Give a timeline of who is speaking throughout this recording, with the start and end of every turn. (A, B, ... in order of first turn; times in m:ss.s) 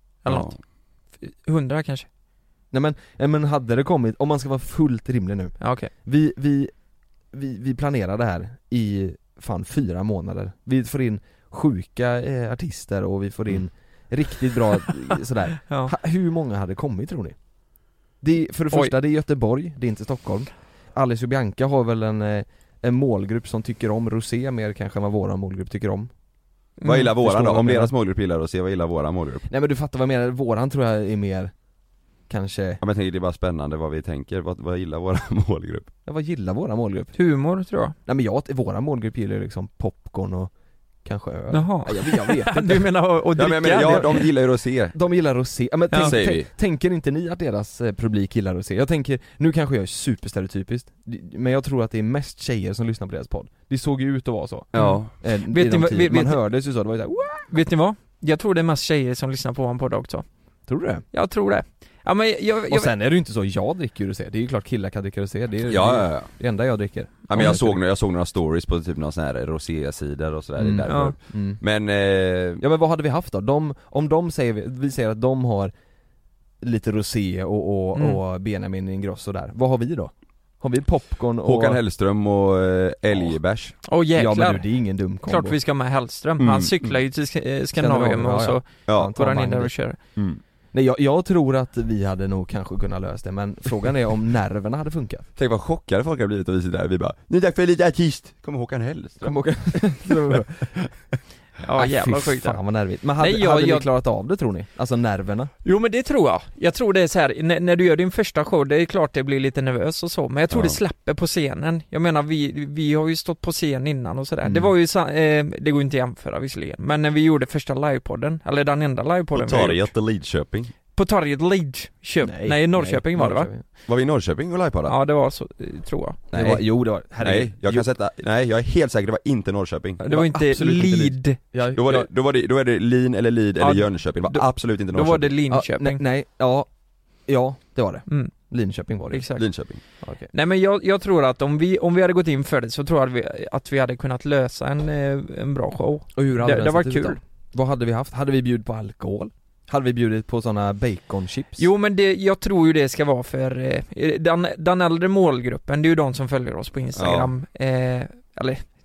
0:00.2-0:02.1 A
0:00.3-0:00.5 B
0:02.7-0:06.7 C
0:05.6-0:05.9 A
0:07.3-0:17.4 C
0:15.7-0:15.9 A
0:18.2-0:26.1 C
0:26.8-0:27.1 A
0:26.8-0:29.4 B
0:27.2-0:27.9 C
0:29.5-0:31.5 C
0:32.3-0:32.8 C
0:32.8-0:35.9 B
0:36.0-0:37.2 C
0:37.1-0:37.9 A
0:38.0-0:40.5 C
0:41.0-0:42.9 C
0:41.5-0:44.3 A
0:43.3-0:44.9 B
0:43.8-0:44.1 C
0:44.9-0:57.5 C
0:45.9-0:46.2 A
0:45.9-0:46.5 B
0:54.7-0:55.1 B
0:54.7-0:56.5 A
0:57.5-1:00.2 A
1:00.7-1:01.0 C
1:01.1-1:02.9 A
1:02.7-1:07.8 C
1:05.7-1:06.3 B
1:07.3-1:12.6 B
1:10.6-1:11.6 C
1:10.8-1:11.2 A
1:12.6-1:15.7 C
1:16.6-1:21.8 C
1:17.9-1:18.2 A
1:21.4-1:23.8 B
1:23.8-1:30.0 A
1:24.2-1:25.6 C
1:26.4-1:26.9 B
1:27.8-1:29.8 C
1:28.9-1:29.1 B
1:30.2-1:30.4 B
1:30.7-1:35.3 C
1:35.4-1:40.0 B
1:39.2-1:41.0 C
1:41.6-1:43.9 A
1:41.8-1:45.5 C
1:45.6-1:59.9 A
1:50.5-1:50.8 B
1:54.4-1:54.7 C
1:59.3-2:00.7 B
2:00.9-2:03.5 A
2:02.2-2:03.6 C
2:03.8-2:05.0 B
2:04.9-2:06.2 A
2:06.3-2:10.0 B
2:06.3-2:07.8 C
2:10.0-2:12.1 C
2:10.1-2:11.4 A
2:11.7-2:15.4 B
2:13.6-2:16.0 A
2:15.5-2:16.7 C
2:17.2-2:19.2 C
2:18.1-2:18.3 A
2:19.1-2:19.5 A
2:19.4-2:19.8 B
2:20.0-2:20.3 C
2:20.3-2:27.2 A
2:26.1-2:31.6 C
2:31.6-2:38.6 A
2:36.9-2:37.3 B